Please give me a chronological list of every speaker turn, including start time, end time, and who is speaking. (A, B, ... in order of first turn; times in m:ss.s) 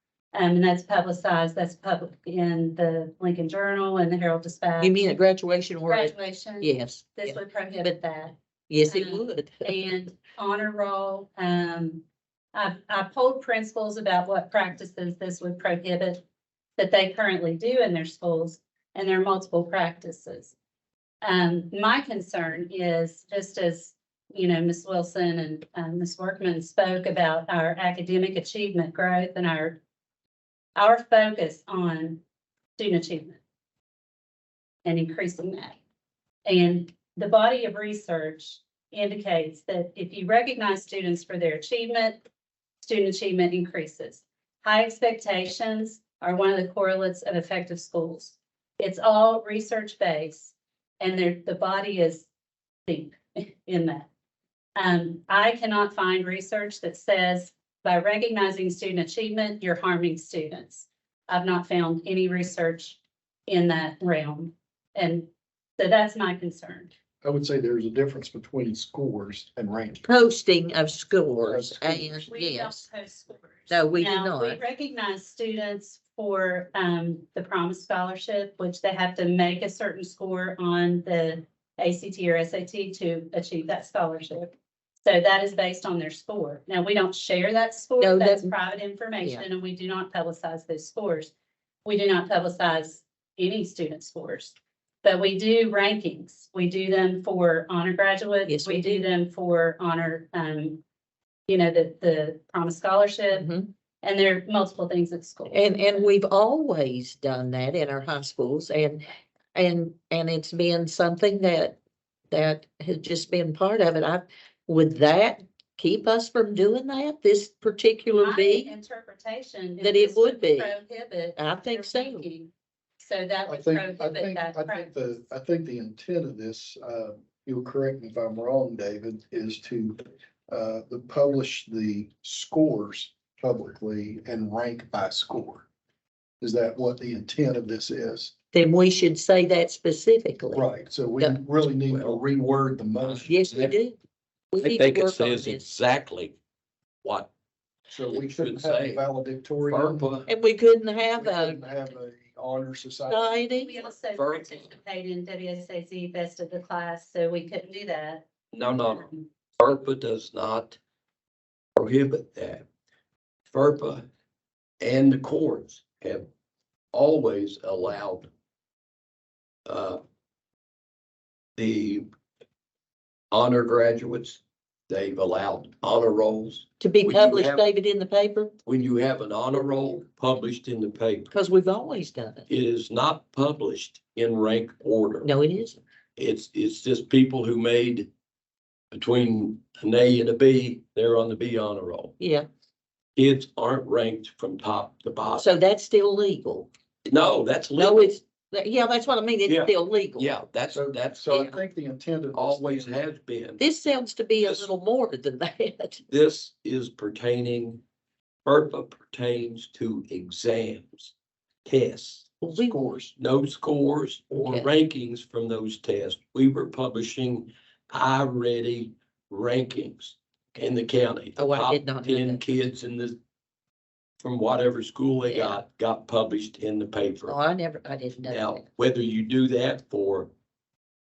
0:00.3-0:05.0 A
0:04.8-0:08.0 B
0:05.9-0:16.2 A
0:08.7-0:09.8 B
0:16.8-0:20.5 A
0:21.2-0:29.8 A
0:30.7-0:32.2 A
0:32.8-0:33.4 A
0:34.8-0:35.8 A
0:36.4-0:42.2 A
0:42.8-0:52.3 A
0:52.8-0:54.1 A
0:54.8-1:06.9 A
1:07.2-1:10.0 C
1:10.0-1:12.8 B
1:11.4-1:12.3 C
1:12.3-1:31.3 A
1:13.7-1:14.6 B
1:28.0-1:28.5 B
1:29.2-1:29.5 B
1:31.8-1:40.8 A
1:38.5-1:39.0 B
1:41.5-1:43.5 A
1:43.3-1:43.7 B
1:44.0-1:46.1 A
1:45.5-1:51.8 B
1:52.3-1:58.7 B
1:58.1-2:05.2 A
1:59.8-2:00.8 B
2:01.4-2:02.3 B
2:03.4-2:15.6 C
2:16.4-2:18.3 C
2:18.5-2:20.6 B
2:20.5-2:23.7 C
2:21.9-2:22.2 D
2:23.0-2:23.7 D
2:23.3-2:24.0 B
2:24.5-2:25.7 B
2:24.6-2:26.4 D
2:27.0-2:27.3 D
2:27.9-2:30.2 C
2:28.0-2:29.1 D
2:29.6-2:30.3 D
2:30.2-2:31.6 B
2:31.1-2:33.5 C
2:33.1-2:33.8 B
2:33.6-2:39.3 A
2:34.1-2:34.7 D
2:38.5-2:40.8 D
2:41.8-2:42.6 D
2:43.5-2:44.1 D
2:44.8-2:46.3 D
2:46.9-2:48.3 D
2:49.6-2:50.0 D
2:51.6-2:52.1 D
2:53.3-2:57.6 D
2:56.8-2:58.5 B
2:58.6-3:01.3 D
3:01.3-3:02.5 B
3:02.5-3:05.3 D
3:05.2-3:05.8 B
3:06.2-3:08.1 D
3:08.9-3:12.1 D
3:12.2-3:12.5 B
3:13.2-3:15.5 D
3:15.4-3:16.7 B
3:17.0-3:18.2 D
3:17.8-3:20.3 B
3:19.4-3:21.4 D
3:20.7-3:23.0 C
3:21.3-3:21.6 B
3:22.3-3:23.6 D
3:23.6-3:26.0 B
3:24.4-3:24.7 D
3:26.1-3:27.8 D
3:28.4-3:31.1 D
3:31.6-3:32.4 D
3:32.4-3:32.8 B
3:32.5-3:33.1 C
3:33.2-3:43.2 D
3:34.4-3:34.7 B
3:41.4-3:42.5 B
3:44.2-3:47.4 D
3:45.2-3:45.6 B
3:47.2-3:48.6 B
3:48.3-3:50.3 D